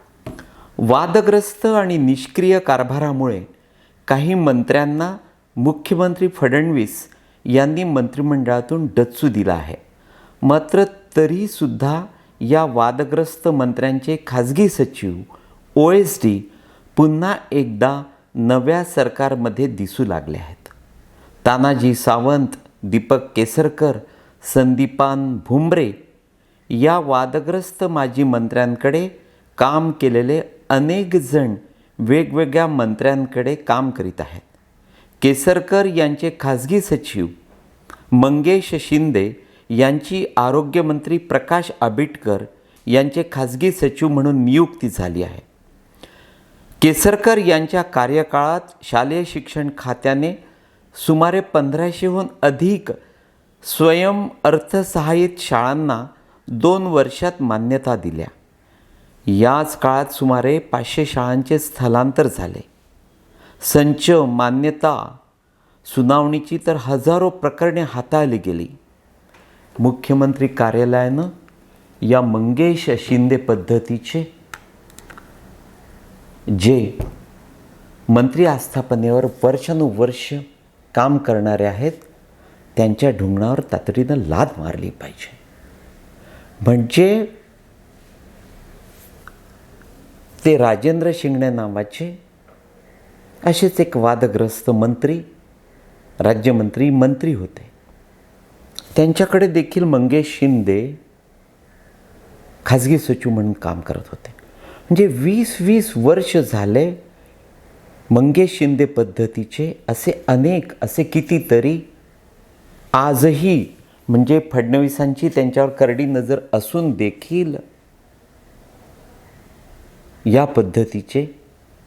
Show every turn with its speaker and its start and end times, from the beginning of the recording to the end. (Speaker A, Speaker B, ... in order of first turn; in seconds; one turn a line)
Speaker A: 0.8-3.5
Speaker A: 4.1-9.8
Speaker A: 10.4-20.7
Speaker A: 21.4-26.0
Speaker A: 26.7-34.5
Speaker A: 35.2-37.3
Speaker A: 38.1-45.5
Speaker A: 46.8-50.4
Speaker A: 50.9-53.0
Speaker A: 53.6-58.3
Speaker A: 59.3-62.7
Speaker A: 63.6-65.2
Speaker A: 65.8-68.8
Speaker A: 69.8-71.3
Speaker A: 72.0-74.3
Speaker A: 76.5-77.0
Speaker A: 78.1-82.0
Speaker A: 82.8-85.4
Speaker A: 86.6-87.3
Speaker A: 90.4-92.2
Speaker A: 93.4-95.2
Speaker A: 96.2-97.7
Speaker A: 99.0-101.0
Speaker A: 102.6-104.4
Speaker A: 104.9-107.0
Speaker A: 108.1-111.9
Speaker A: 113.0-117.6
Speaker A: 120.2-121.3